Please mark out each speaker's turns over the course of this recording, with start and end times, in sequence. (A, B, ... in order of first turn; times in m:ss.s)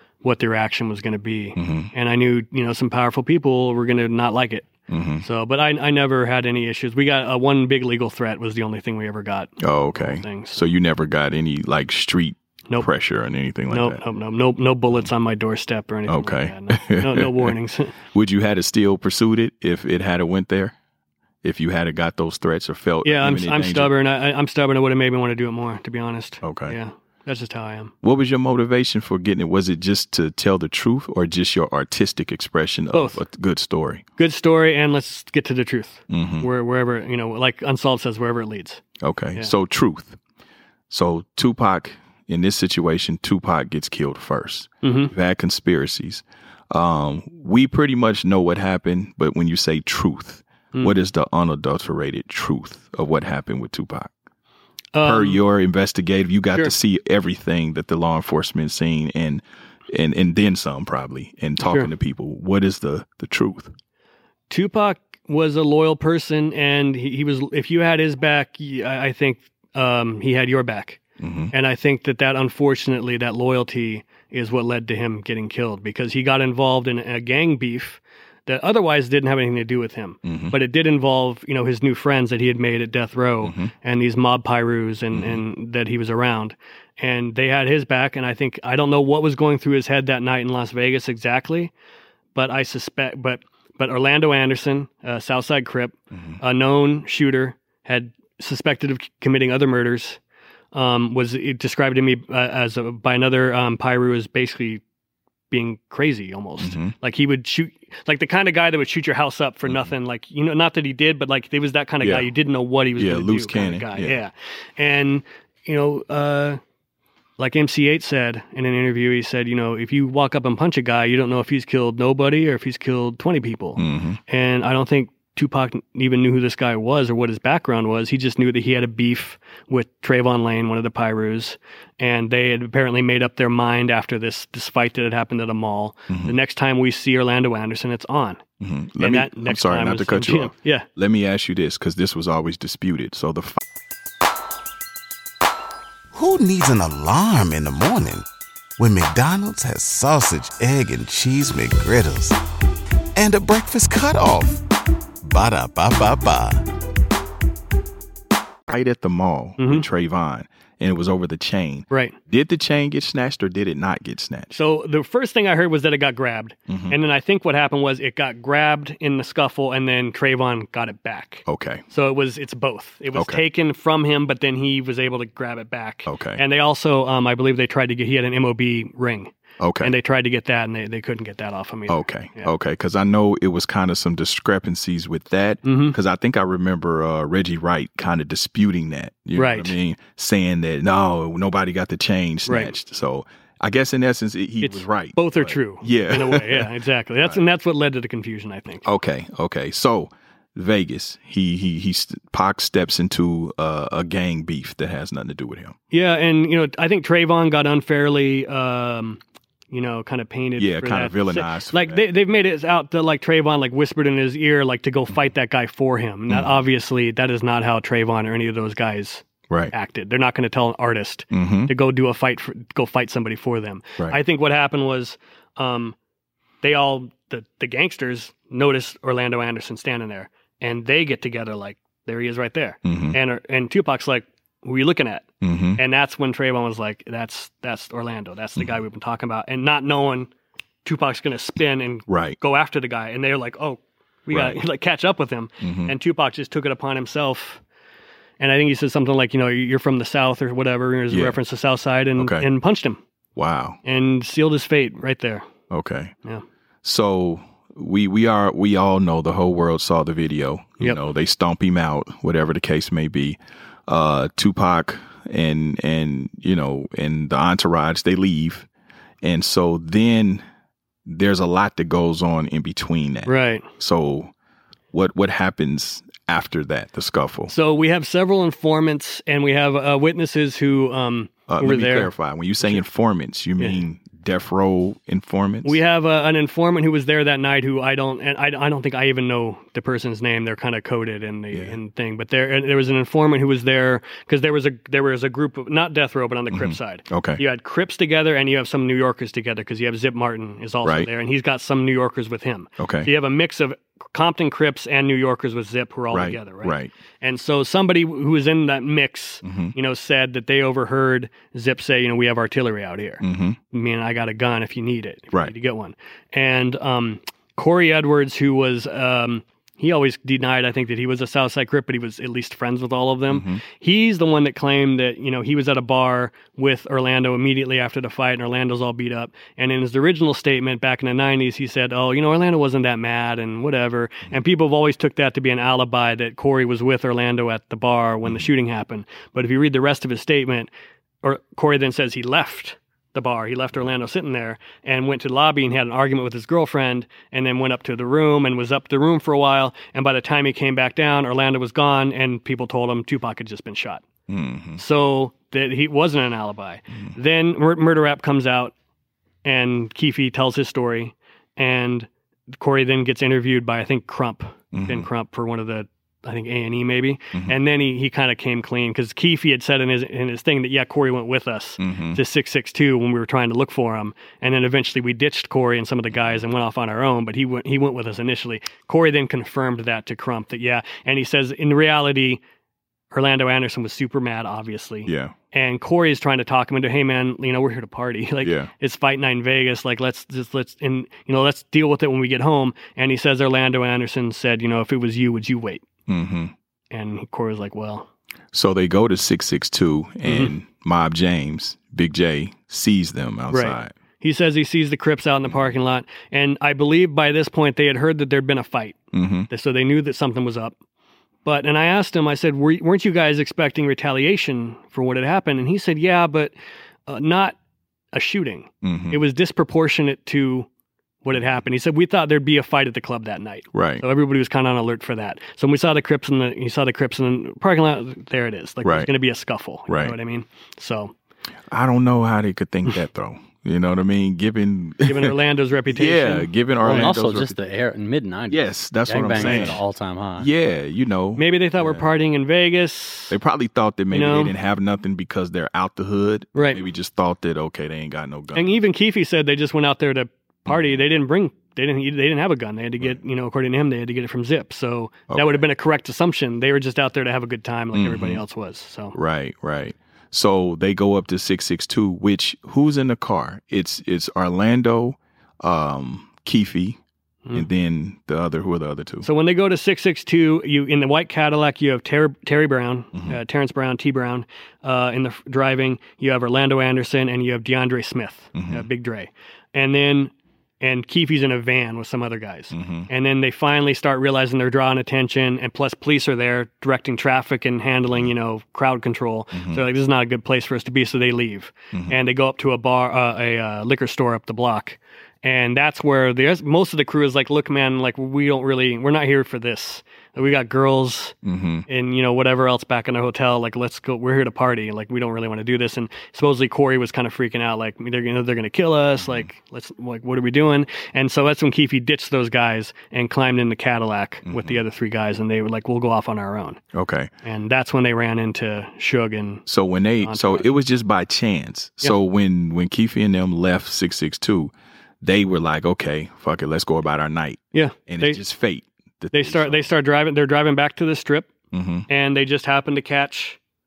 0:00.2-0:04.7 A
0:01.6-0:01.9 B
0:04.9-0:05.3 B
0:05.2-0:10.6 A
0:09.6-0:14.0 B
0:13.7-0:17.9 A
0:16.1-0:17.6 B
0:18.1-0:20.8 B
0:21.4-0:23.9 B
0:23.0-0:27.9 A
0:26.4-0:26.8 B
0:28.0-0:34.0 B
0:32.9-0:33.2 A
0:34.2-0:38.8 A
0:36.1-0:36.5 B
0:39.0-0:40.2 B
0:40.9-0:54.1 B
0:44.8-0:45.1 A
0:54.9-0:55.4 A
0:55.0-1:03.7 B
1:01.6-1:01.9 A
1:04.5-1:11.0 A
1:11.2-1:11.5 B
1:11.5-1:31.7 A
1:20.2-1:20.6 B
1:23.4-1:23.7 B
1:25.1-1:25.4 B
1:32.4-1:40.2 A
1:36.1-1:36.4 B
1:40.7-1:44.8 A
1:45.5-1:56.6 A
1:46.6-1:47.0 B
1:52.0-1:52.3 B
1:53.0-1:54.2 B
1:57.4-2:18.4 A
2:03.8-2:04.2 B
2:16.1-2:16.4 B
2:18.6-2:23.6 B
2:19.0-2:20.9 A
2:26.1-2:28.3 C
2:28.8-2:32.4 C
2:33.2-2:34.6 C
2:35.2-2:36.7 C
2:38.7-2:44.5 B
2:39.6-2:39.9 A
2:41.9-2:42.2 A
2:44.5-3:02.5 A
2:46.7-2:47.0 B
2:51.5-2:51.8 B
2:53.2-2:53.4 B
2:56.1-2:56.4 B
2:59.6-2:59.9 B
3:01.9-3:16.7 B
3:05.6-3:06.0 A
3:09.4-3:09.8 A
3:12.5-3:12.7 A
3:14.6-3:18.9 A
3:18.8-3:25.8 B
3:25.9-3:29.2 A
3:29.7-3:46.0 A
3:30.6-3:32.0 B
3:41.3-3:41.7 B
3:46.6-4:00.3 A
3:52.8-3:53.2 B
3:55.4-3:55.8 B
4:00.8-4:07.6 A
4:02.1-4:02.4 B
4:04.3-4:04.6 B
4:05.6-4:06.0 B
4:08.4-4:13.0 A
4:11.1-4:11.4 B
4:12.2-4:12.5 B
4:13.4-4:13.8 B
4:13.8-4:15.5 A
4:15.7-4:16.1 B
4:16.8-4:28.7 B
4:29.2-4:30.4 B
4:31.1-4:34.3 B
4:33.3-4:33.7 A
4:34.9-4:37.5 B
4:37.5-4:42.1 A
4:41.5-4:45.8 B
4:43.6-4:43.8 A
4:45.6-5:40.7 A
4:56.5-4:57.4 B
5:00.8-5:01.1 B
5:02.8-5:03.1 B
5:06.1-5:06.9 B
5:09.4-5:09.7 B
5:13.2-5:13.6 B
5:23.3-5:23.6 B
5:41.2-5:54.0 A
5:54.3-5:54.8 B
5:54.8-5:58.7 A
5:59.4-6:22.4 A
6:04.7-6:05.1 B
6:11.8-6:12.2 B
6:23.1-6:35.8 A
6:25.1-6:25.3 B
6:28.4-6:28.7 B
6:36.1-6:36.5 B
6:36.9-6:38.1 A
6:38.5-6:43.9 B
6:40.2-6:40.5 A
6:43.5-6:49.0 A
6:49.1-6:49.5 B
6:49.5-6:50.8 A
6:51.4-6:56.5 A
6:57.1-6:57.6 A
6:58.1-7:00.7 A
6:58.8-6:59.2 B
7:01.2-7:11.1 A
7:01.3-7:01.6 B
7:03.7-7:04.0 B
7:08.8-7:09.1 B
7:09.9-7:10.2 B
7:11.7-7:15.4 B
7:15.0-7:17.1 A
7:15.9-7:17.6 B
7:16.8-7:20.5 D
7:18.5-7:19.8 B
7:19.4-7:19.8 A
7:20.4-7:22.1 B
7:21.4-7:23.4 A
7:23.3-7:28.8 B
7:24.1-7:24.5 A
7:26.6-7:26.8 A
7:28.6-7:39.2 A
7:30.7-7:31.0 B
7:35.3-7:35.6 B
7:37.9-7:38.4 B
7:39.1-7:47.0 B
7:47.5-7:49.3 B
7:49.2-8:21.4 A
7:58.6-7:58.9 B
8:02.7-8:03.1 B
8:09.5-8:09.8 B
8:11.9-8:12.2 B
8:21.4-8:21.9 B
8:21.9-8:36.8 A
8:29.2-8:29.5 B
8:34.5-8:34.8 B
8:36.9-8:37.3 B
8:37.4-8:39.6 A
8:39.7-8:49.9 B
8:40.2-8:40.7 A
8:47.7-8:48.4 A
8:49.3-8:51.5 A
8:51.7-8:52.1 B
8:52.1-8:53.6 A